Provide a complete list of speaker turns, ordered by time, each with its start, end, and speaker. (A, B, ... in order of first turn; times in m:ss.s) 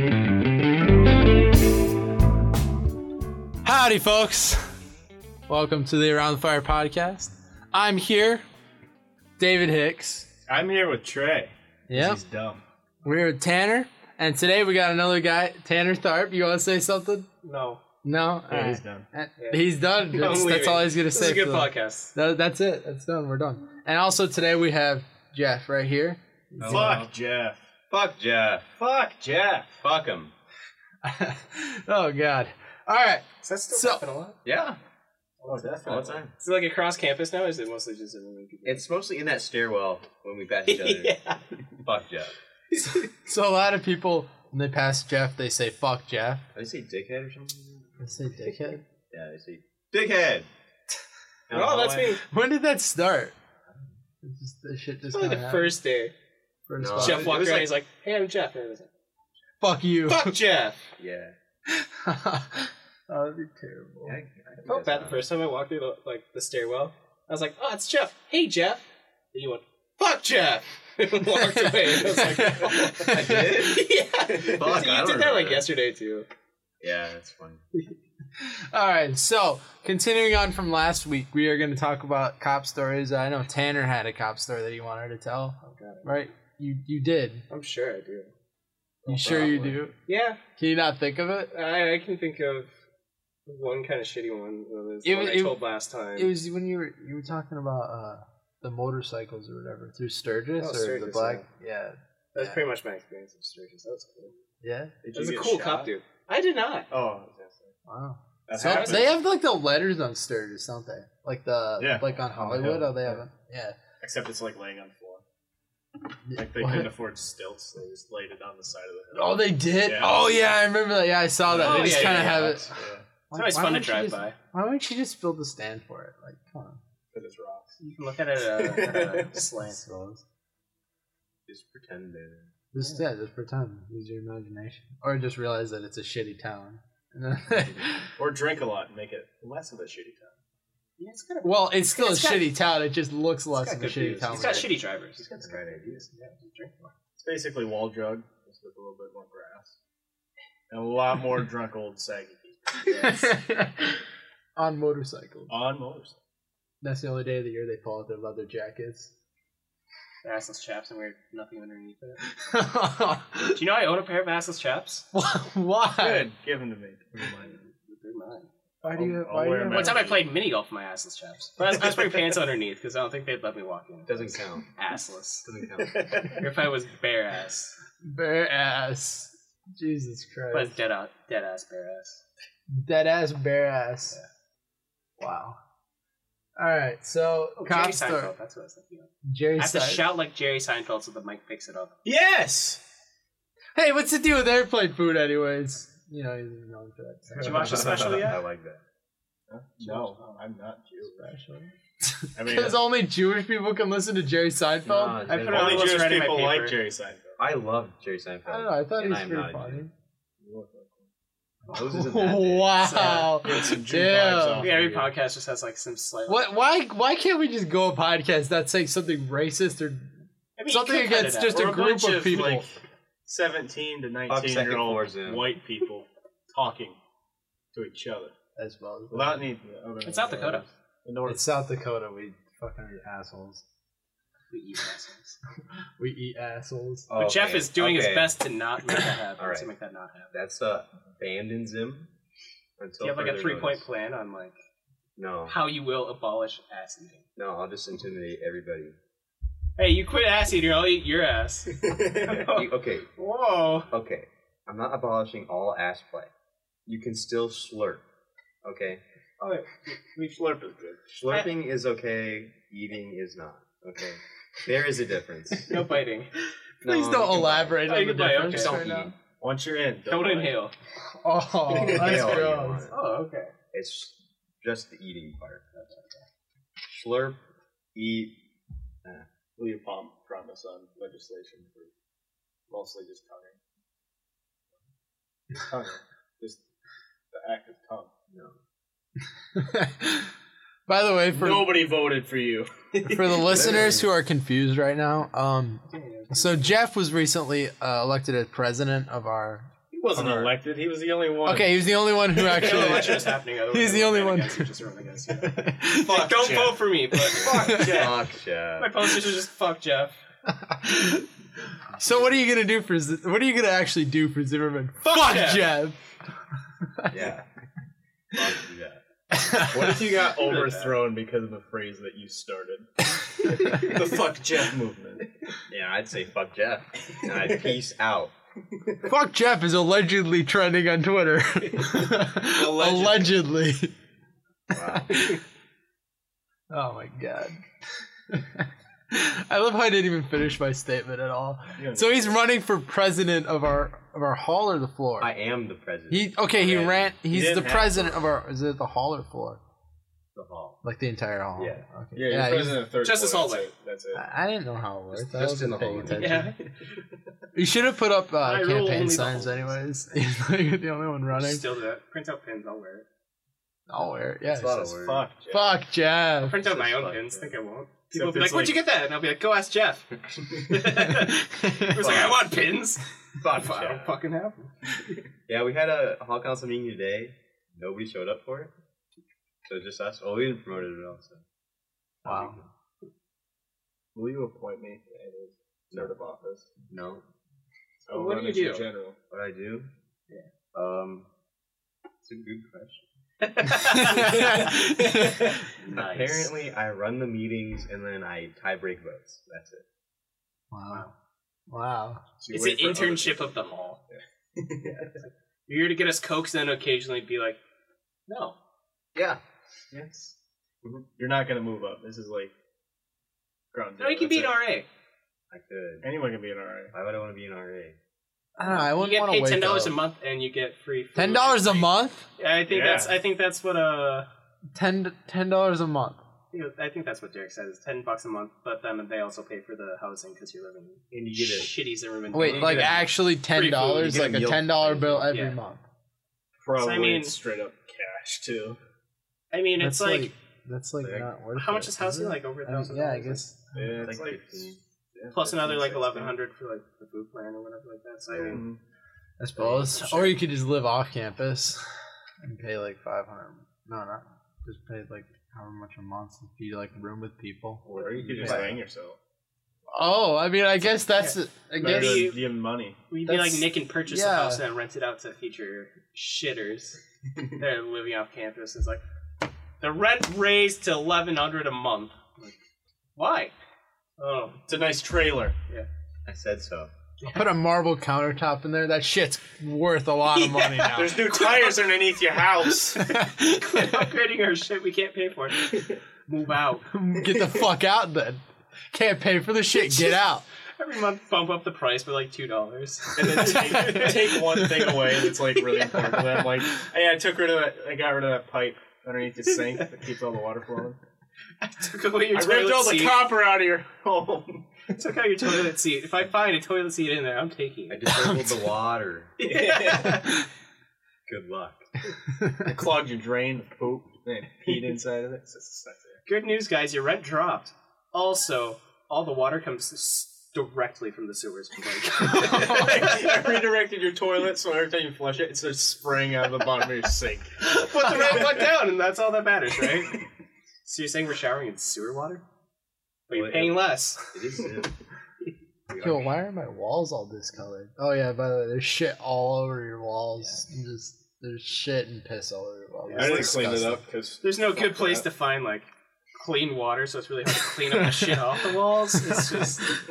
0:03.6-0:04.6 A
0:05.5-0:08.4 A
0:09.4-0:10.3 A
0:10.5-0:12.6 B
0:11.9-0:12.2 A
0:13.0-0:17.3 A
0:17.4-0:17.8 C
0:18.0-0:27.0 A
0:18.5-0:19.1 B
0:19.4-0:22.1 C
0:26.6-0:27.0 D
0:26.7-0:27.6 B
0:27.9-0:28.6 D
0:28.8-0:29.8 B
0:29.8-0:30.3 D
0:31.0-0:34.0 A
0:33.4-0:34.4 C
0:34.4-0:34.8 D
0:35.4-0:38.8 C
0:35.4-0:36.2 B
0:35.8-0:36.3 D
0:38.6-0:41.2 D
0:40.7-0:41.4 C
0:41.8-0:42.3 D
0:42.7-0:43.0 C
0:43.1-0:46.5 A
0:46.5-0:48.0 D
0:48.0-0:48.8 A
0:49.1-0:50.5 D
0:51.5-0:52.2 D
0:51.5-0:52.2 C
0:52.2-0:53.3 A
0:54.2-0:55.7 A
0:55.1-0:56.1 C
0:56.7-0:57.4 A
0:56.8-0:57.8 D
0:57.0-0:58.9 C
0:59.6-1:00.4 A
1:00.0-1:00.8 C
1:01.0-1:01.3 D
1:01.7-1:04.2 A
1:04.0-1:05.3 D
1:04.6-1:16.3 C
1:11.4-1:13.5 A
1:13.0-1:15.7 D
1:16.8-1:17.6 D
1:18.4-1:27.4 A
1:25.6-1:26.2 C
1:27.5-1:28.3 C
1:29.0-1:29.8 B
1:29.1-1:29.9 A
1:30.1-1:30.4 C
1:30.6-1:31.5 A
1:31.5-1:32.7 C
1:33.4-1:36.3 C
1:35.0-1:42.6 A
1:40.6-1:41.4 C
1:42.3-1:44.3 C
1:44.6-1:45.0 A
1:45.0-1:45.9 B
1:45.1-1:46.9 C
1:46.9-1:47.7 B
1:47.9-1:53.8 A
1:48.5-1:49.2 B
1:48.6-1:49.1 C
1:51.8-1:53.2 B
1:54.0-1:55.2 B
1:56.3-1:56.9 A
1:56.3-2:00.2 B
1:59.1-2:02.8 A
2:01.4-2:03.0 B
2:01.6-2:02.6 C
2:03.3-2:06.8 A
2:03.3-2:04.4 C
2:07.1-2:07.8 B
2:07.8-2:09.8 C
2:08.5-2:09.4 B
2:09.6-2:10.2 A
2:11.5-2:12.5 D
2:12.7-2:18.1 A
2:12.8-2:13.0 C
2:18.2-2:20.3 B
2:21.0-2:22.5 C
2:21.4-2:24.8 A
2:23.5-2:26.9 C
2:25.2-2:26.0 D
2:27.2-2:29.8 B
2:30.7-2:32.9 B
2:32.8-2:33.3 C
2:32.9-2:34.0 A
2:34.6-2:35.6 A
2:35.5-2:36.2 B
2:36.8-2:39.1 A
2:40.2-2:42.2 C
2:42.4-2:43.6 A
2:43.5-2:45.1 C
2:45.1-2:46.3 A
2:46.0-2:47.6 B
2:47.5-2:48.5 C
2:48.8-2:50.1 A
2:48.9-2:50.2 B
2:49.7-2:57.8 C
2:54.0-2:54.7 D
2:55.4-2:56.3 D
2:58.0-3:00.8 A
3:00.5-3:02.2 C
3:02.7-3:04.2 A
3:05.2-3:05.6 A
3:06.6-3:08.3 A
3:07.6-3:11.9 C
3:09.2-3:10.0 A
3:12.0-3:12.8 B
3:13.7-3:18.0 A
3:17.3-3:17.8 B
3:17.4-3:18.4 C
3:17.4-3:18.8 D
3:19.5-3:21.3 B
3:19.9-3:20.4 C
3:21.2-3:25.2 A
3:22.4-3:22.8 B
3:24.8-3:26.1 D
3:25.2-3:26.8 C
3:25.5-3:27.4 B
3:27.4-3:29.8 D
3:28.5-3:29.9 A
3:30.4-3:31.1 B
3:31.6-3:34.7 A
3:31.7-3:33.2 D
3:32.8-3:33.4 C
3:33.1-3:35.1 B
3:34.6-3:36.5 C
3:36.3-3:40.1 A
3:40.6-3:42.6 C
3:40.7-3:42.6 A
3:41.5-3:47.0 B
3:44.3-3:45.5 D
3:47.7-3:48.3 B
3:48.6-3:49.4 A
3:49.1-3:51.4 B
3:50.0-3:50.6 C
3:51.2-3:53.6 A
3:54.5-3:55.4 C
3:56.0-3:57.1 A
3:57.1-3:58.4 D
3:57.2-4:00.3 C
3:59.4-3:59.7 D
4:00.3-4:02.1 D
4:02.8-4:03.8 D
4:03.0-4:04.6 C
4:05.2-4:05.6 D
4:05.5-4:07.2 C
4:07.4-4:09.0 D
4:09.8-4:13.9 C
4:11.8-4:12.4 B
4:12.5-4:13.1 D
4:13.9-4:16.3 D
4:16.8-4:18.0 D
4:18.6-4:19.0 D
4:20.1-4:21.0 B
4:21.1-4:25.7 D
4:25.6-4:26.3 C
4:26.8-4:29.1 D
4:26.8-4:29.1 A
4:27.8-4:28.8 C
4:29.4-4:30.6 B
4:30.0-4:30.7 C
4:31.2-4:32.8 A
4:31.7-4:33.0 D
4:31.7-4:32.3 B
4:32.9-4:33.5 C
4:33.7-4:35.6 D
4:35.7-4:36.2 C
4:36.9-4:37.4 D
4:37.9-4:38.4 D
4:39.6-4:41.9 B
4:42.7-4:43.6 B
4:45.5-4:46.6 B
4:47.3-4:48.1 B
4:48.3-4:48.6 D
4:49.5-4:50.3 A
4:50.9-4:51.8 A
4:51.3-4:54.0 B
4:53.1-4:59.7 A
4:53.5-4:54.1 D
4:55.8-4:56.8 C
5:00.0-5:01.8 B
5:00.1-5:00.5 D
5:01.4-5:04.7 A
5:02.3-5:03.2 B
5:02.4-5:08.1 C
5:05.3-5:06.3 A
5:06.0-5:08.2 B
5:07.1-5:08.1 A
5:07.6-5:08.9 D
5:08.8-5:10.2 C
5:10.5-5:11.3 A
5:11.9-5:16.0 A
5:15.0-5:15.7 C
5:17.1-5:17.5 D
5:18.3-5:19.0 D
5:19.3-5:20.2 A
5:19.6-5:22.9 B
5:20.4-5:21.0 C
5:23.4-5:25.3 B
5:25.7-5:28.3 D
5:29.0-5:33.9 A
5:32.3-5:33.4 B
5:34.7-5:35.2 D
5:34.7-5:35.4 A
5:36.7-5:37.6 A
5:38.3-5:45.3 A
5:41.8-5:42.4 B
5:45.2-5:47.1 D
5:46.1-5:49.6 A
5:47.3-5:48.3 B
5:50.3-5:50.8 D
5:50.8-5:52.8 A
5:51.6-5:51.8 D
5:52.1-5:54.2 B
5:53.0-5:53.7 C
5:54.1-5:56.5 A
5:55.1-5:56.5 D
5:56.2-5:56.5 C
5:57.5-6:01.6 A
5:58.4-5:59.7 C
6:01.3-6:03.0 C
6:03.9-6:06.6 A
6:04.4-6:05.3 D
6:05.0-6:05.8 B
6:06.4-6:14.7 C
6:06.5-6:07.5 D
6:08.1-6:08.8 B
6:11.6-6:11.9 A
6:11.9-6:12.5 D
6:13.4-6:14.2 D
6:15.5-6:18.7 D
6:19.6-6:21.4 D
6:22.2-6:22.7 D
6:22.2-6:22.6 A
6:24.1-6:26.7 B
6:26.9-6:27.2 D
6:28.0-6:29.2 B
6:28.1-6:28.9 C
6:29.3-6:29.9 D
6:30.7-6:31.3 D
6:32.2-6:33.0 D
6:33.4-6:34.9 C
6:33.9-6:35.4 A
6:34.6-6:35.3 B
6:35.8-6:36.5 C
6:35.9-6:39.8 D
6:40.7-6:41.1 A
6:41.7-6:42.3 A
6:42.4-6:45.1 B
6:42.5-6:44.0 C
6:45.2-6:47.6 C
6:48.3-6:48.6 C
6:49.1-6:49.4 D
6:49.9-6:50.3 B
6:51.2-6:52.5 B
6:53.7-6:54.6 B
6:54.0-6:54.9 C
6:55.5-6:56.1 D
6:56.0-6:56.9 B
6:56.9-6:58.0 D
6:58.6-7:00.0 A
6:58.6-7:04.3 C
7:01.1-7:02.3 A
7:02.7-7:03.1 B
7:04.7-7:06.2 A
7:06.5-7:14.3 C
7:11.1-7:11.7 D
7:12.3-7:15.8 A
7:12.4-7:13.0 D
7:14.0-7:15.3 D
7:15.2-7:15.6 C
7:16.6-7:18.8 B
7:16.8-7:17.4 C
7:19.5-7:20.3 C
7:19.8-7:24.0 A
7:21.0-7:21.3 D
7:21.5-7:23.5 C
7:23.7-7:26.4 B
7:24.0-7:24.8 D
7:25.3-7:28.6 C
7:28.3-7:28.6 D
7:28.4-7:28.8 B
7:29.4-7:31.8 A
7:29.6-7:30.4 C
7:32.4-7:37.8 A
7:37.9-7:38.7 D
7:37.9-7:39.2 B
7:38.4-7:38.7 A
7:38.4-7:38.7 C
7:39.9-7:42.3 A
7:41.1-7:42.4 C
7:41.8-7:43.0 B
7:43.1-7:47.0 C
7:43.2-7:44.6 A
7:47.6-7:49.0 C
7:49.8-7:52.6 C
7:53.2-7:53.5 C
7:54.2-7:54.6 C
7:54.7-7:55.6 B
7:56.2-7:56.9 D
7:57.2-7:57.5 C
7:57.3-8:01.2 A
8:00.3-8:01.9 C
8:00.9-8:03.0 B
8:02.9-8:04.0 A
8:03.0-8:06.9 C
8:06.9-8:10.4 A
8:09.8-8:10.2 C
8:10.8-8:14.6 C
8:13.1-8:21.0 B
8:13.3-8:14.9 A
8:15.8-8:16.1 C
8:21.6-8:23.3 C
8:22.3-8:24.9 B
8:24.9-8:28.4 C
8:27.9-8:29.3 D
8:28.1-8:28.4 A
8:29.4-8:30.4 C
8:29.4-8:30.2 B
8:31.3-8:31.8 D
8:32.6-8:36.2 B
8:36.2-8:43.5 C
8:42.5-8:48.3 B
8:47.6-8:50.2 C
8:50.8-8:52.4 C
8:53.3-8:54.4 C
8:53.3-8:54.9 D
8:55.9-8:56.3 D
8:56.0-9:04.0 A
9:03.1-9:03.6 C
9:03.1-9:05.3 B
9:04.4-9:10.0 C
9:07.7-9:09.7 A